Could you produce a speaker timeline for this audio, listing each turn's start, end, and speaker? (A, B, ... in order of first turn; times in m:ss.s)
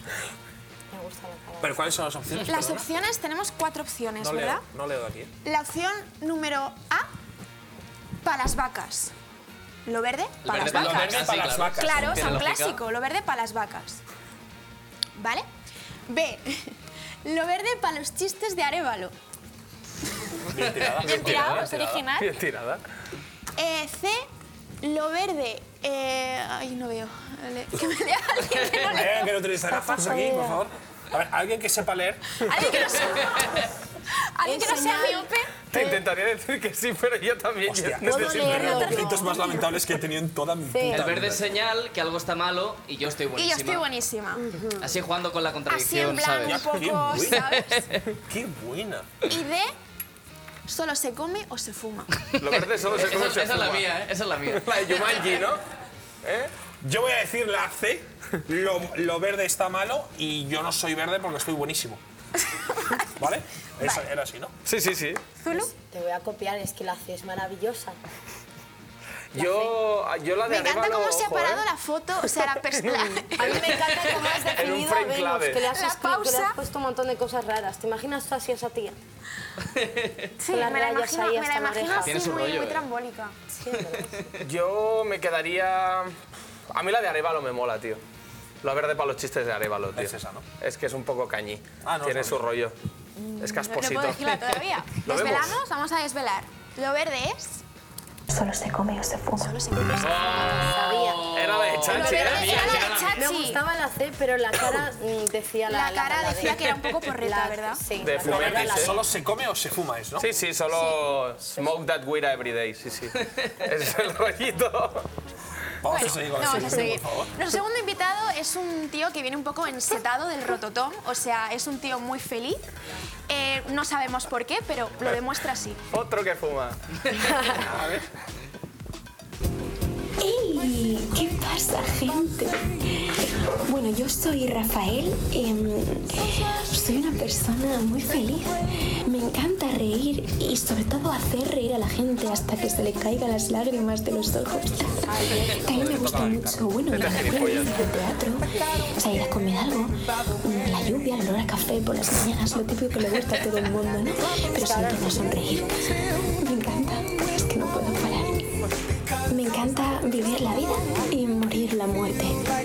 0:00.9-0:01.9 A
0:01.6-0:02.9 B
0:02.4-0:04.6 C
0:04.2-0:05.3 B
0:05.4-0:07.1 C
0:08.2-0:09.1 C
0:09.8-0:14.0 C
0:10.4-0:12.8 D
0:10.6-0:12.4 B
0:15.2-0:15.4 C
0:16.1-0:16.7 C
0:17.2-0:19.1 C
0:20.5-0:22.0 B
0:21.0-0:22.8 E
0:21.0-0:22.3 C
0:23.6-0:24.2 C
0:24.8-0:29.4 C
0:28.9-0:32.9 B
0:29.7-0:30.6 A
0:32.4-0:33.7 C
0:34.4-0:35.5 C
0:34.4-0:36.0 A
0:35.7-0:38.8 E
0:37.6-0:41.5 B
0:38.0-0:39.6 A
0:38.7-0:39.2 C
0:40.7-0:41.0 A
0:40.9-0:43.8 D
0:43.3-0:44.4 C
0:44.4-0:44.8 A
0:44.8-0:46.7 D
0:45.7-0:47.9 C
0:46.4-0:47.6 B
0:47.5-0:48.0 D
0:48.1-0:49.2 B
0:49.2-0:49.7 C
0:50.7-0:52.3 C
0:52.4-0:54.8 D
0:52.4-0:53.9 E
0:54.5-0:55.6 E
0:56.2-0:56.5 E
0:56.8-1:02.0 B
1:02.8-1:03.1 C
1:03.2-1:04.5 B
1:04.6-1:05.2 E
1:05.4-1:05.7 C
1:05.5-1:08.0 A
1:09.3-1:11.6 E
1:09.3-1:09.7 A
1:10.4-1:14.3 C
1:12.7-1:13.8 E
1:13.3-1:19.0 A
1:14.4-1:15.6 E
1:15.6-1:16.6 C
1:19.8-1:20.2 D
1:20.4-1:23.4 C
1:20.4-1:22.2 A
1:22.0-1:22.8 D
1:23.5-1:24.3 A
1:24.4-1:26.1 E
1:26.7-1:28.0 E
1:28.6-1:32.7 E
1:29.9-1:30.4 B
1:31.8-1:32.4 B
1:33.2-1:37.6 C
1:33.4-1:35.6 E
1:38.3-1:39.6 F
1:39.4-1:40.4 C
1:40.0-1:43.2 D
1:40.1-1:41.3 A
1:41.3-1:42.8 E
1:41.9-1:43.6 C
1:41.9-1:49.0 A
1:45.7-1:47.9 C
1:48.0-1:49.0 E
1:48.2-1:50.3 B
1:50.2-1:55.0 E
1:55.8-1:57.3 B
1:55.9-2:02.6 C
2:03.3-2:05.8 C
2:05.9-2:06.8 E
2:07.2-2:07.6 A
2:07.5-2:08.0 E
2:10.2-2:25.0 F
2:25.1-2:25.9 A
2:25.5-2:38.4 F
2:25.8-2:27.8 E
2:34.6-2:35.4 A
2:39.3-2:42.5 F